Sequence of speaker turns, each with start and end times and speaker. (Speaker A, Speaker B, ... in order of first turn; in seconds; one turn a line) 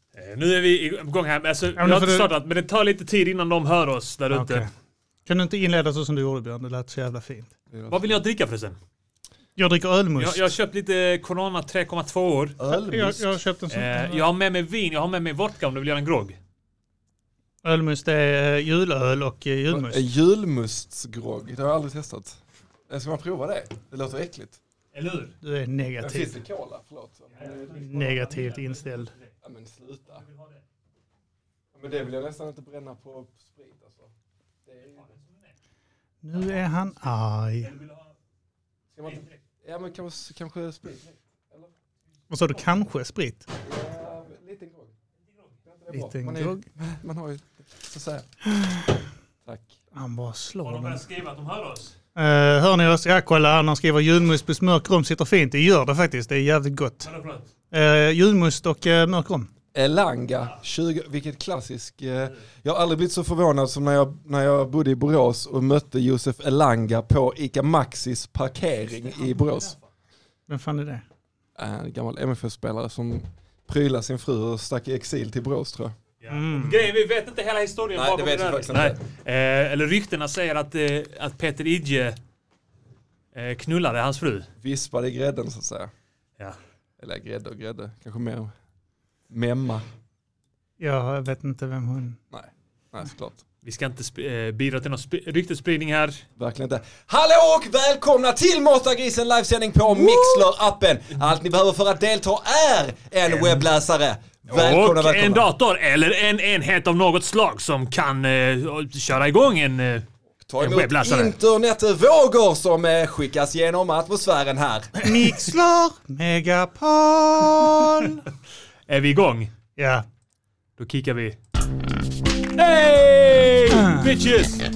Speaker A: 0.2-4.7
Speaker B: 1.8-2.3
Speaker B: 4.3-4.7
Speaker B: 5.3-7.5
Speaker C: 7.7-8.1
Speaker A: 7.9-8.8
Speaker B: 9.6-10.5
Speaker A: 10.2-12.6
Speaker C: 12.6-13.4
Speaker B: 12.9-14.2
Speaker A: 13.7-16.4
Speaker B: 17.6-20.0
Speaker C: 19.7-24.6
Speaker A: 24.9-25.3
Speaker B: 25.4-26.4
Speaker C: 26.0-27.7
Speaker B: 27.5-29.1
Speaker C: 29.4-30.2
Speaker A: 30.3-30.5
Speaker C: 31.7-34.1
Speaker C: 34.7-35.1
Speaker B: 36.2-37.7
Speaker C: 39.0-41.7
Speaker B: 42.3-43.4
Speaker C: 43.6-44.9
Speaker C: 45.7-48.3
Speaker B: 45.9-46.6
Speaker C: 49.5-49.8
Speaker B: 49.9-51.0
Speaker A: 50.6-51.9
Speaker B: 52.2-57.1
Speaker A: 57.0-57.5
Speaker B: 57.7-59.5
Speaker C: 59.7-69.8
Speaker A: 69.2-69.8
Speaker B: 70.5-71.0
Speaker C: 71.6-75.9
Speaker A: 76.2-82.2
Speaker B: 76.3-76.8
Speaker C: 77.9-79.0
Speaker A: 83.3-84.5
Speaker C: 84.6-85.9
Speaker C: 87.0-88.5
Speaker C: 89.3-89.8
Speaker B: 90.8-92.2
Speaker C: 92.3-93.4
Speaker A: 93.6-96.2
Speaker C: 96.4-105.5
Speaker A: 100.0-100.3
Speaker A: 103.3-103.6
Speaker A: 104.5-110.1
Speaker C: 110.5-115.1
Speaker A: 110.6-111.3
Speaker B: 115.0-118.1
Speaker C: 117.6-118.2
Speaker A: 118.9-119.5
Speaker B: 119.8-120.1
Speaker A: 120.8-121.4
Speaker A: 122.6-124.7
Speaker B: 123.7-124.1